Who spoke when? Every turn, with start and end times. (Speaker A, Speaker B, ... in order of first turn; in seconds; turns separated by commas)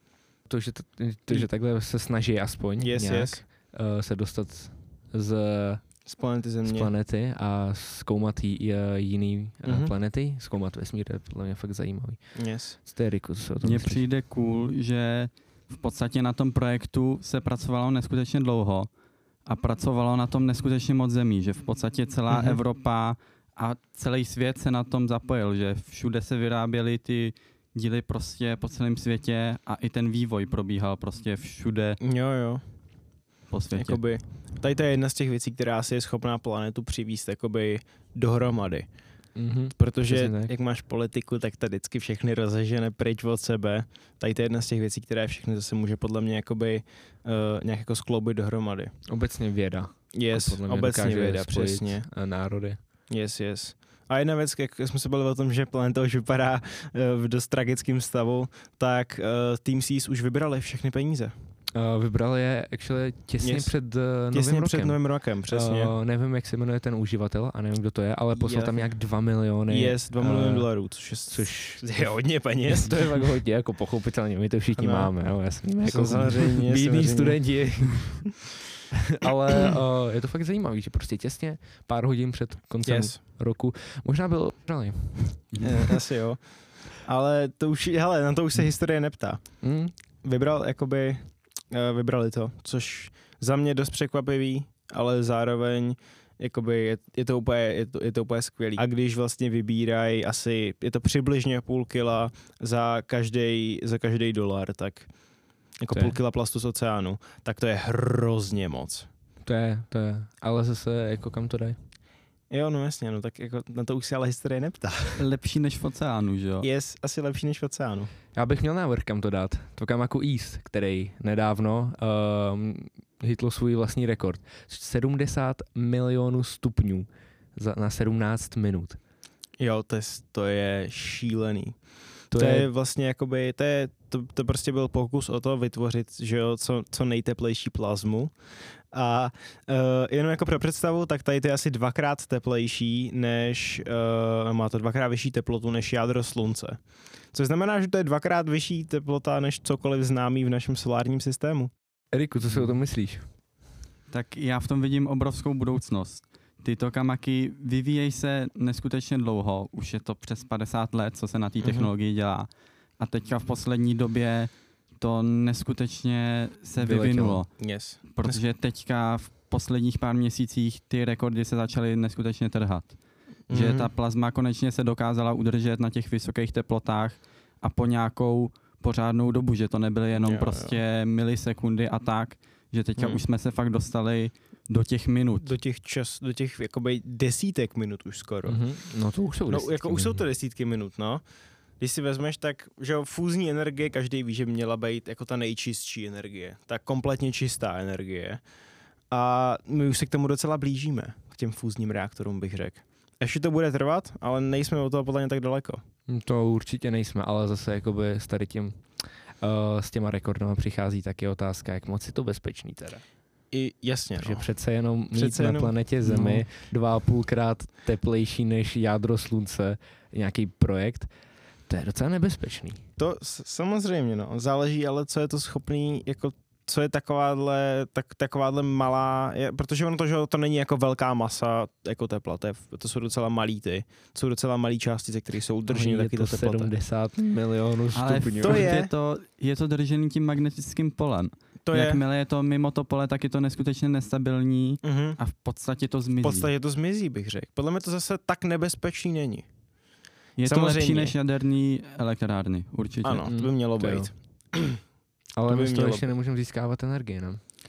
Speaker A: 0.5-5.8, Speaker B: 2.8-3.4, Speaker B: 6.1-6.9, Speaker A: 6.6-12.2, Speaker B: 9.7-9.9, Speaker B: 12.3-12.8, Speaker A: 12.8-14.0, Speaker C: 13.6-18.9, Speaker C: 19.5-32.0, Speaker B: 22.3-22.6, Speaker B: 32.0-32.6, Speaker C: 33.5-34.0, Speaker B: 33.7-38.9, Speaker A: 39.4-40.5, Speaker B: 39.8-48.9, Speaker A: 49.1-52.8, Speaker B: 50.1-52.1, Speaker B: 53.1-61.3, Speaker A: 61.8-65.0, Speaker B: 63.4-63.8, Speaker B: 64.3-65.9, Speaker A: 65.5-70.7, Speaker B: 68.4-68.9, Speaker B: 69.7-73.1, Speaker A: 71.3-72.1, Speaker A: 72.7-78.3, Speaker B: 74.8-75.1, Speaker B: 75.8-77.4, Speaker A: 79.0-85.8, Speaker B: 82.8-83.2, Speaker B: 85.6-86.4, Speaker B: 87.0-89.4, Speaker A: 89.6-89.9, Speaker B: 90.2-105.1, Speaker B: 105.8-109.1, Speaker A: 109.5-111.8, Speaker B: 112.5-115.2, Speaker C: 115.2-116.7, Speaker B: 116.6-118.1, Speaker A: 118.3-129.0, Speaker B: 129.6-131.8, Speaker A: 132.3-132.7, Speaker B: 132.3-138.3, Speaker B: 138.9-146.8, Speaker B: 147.3-151.7, Speaker A: 152.1-153.3, Speaker C: 154.1-162.5, Speaker B: 161.6-161.9, Speaker C: 163.0-172.9, Speaker A: 166.8-167.4, Speaker B: 167.6-168.4, Speaker C: 173.5-185.5, Speaker B: 173.5-173.9, Speaker B: 180.2-180.8, Speaker B: 183.0-183.2, Speaker B: 185.4-188.6, Speaker A: 188.5-190.2, Speaker B: 189.5-191.2, Speaker B: 191.8-198.4, Speaker B: 199.1-205.8, Speaker A: 206.1-208.8, Speaker A: 209.4-213.0, Speaker B: 213.5-214.5, Speaker A: 214.2-221.1, Speaker B: 215.1-215.7, Speaker A: 221.7-222.8, Speaker B: 223.0-236.7, Speaker A: 235.7-238.7, Speaker C: 237.9-246.5, Speaker B: 238.4-238.9, Speaker B: 241.7-242.0, Speaker B: 244.8-245.2, Speaker B: 246.2-249.5, Speaker C: 250.4-253.3, Speaker B: 250.4-251.2, Speaker B: 253.0-254.8, Speaker A: 253.3-254.1, Speaker A: 255.4-257.4, Speaker B: 255.5-256.1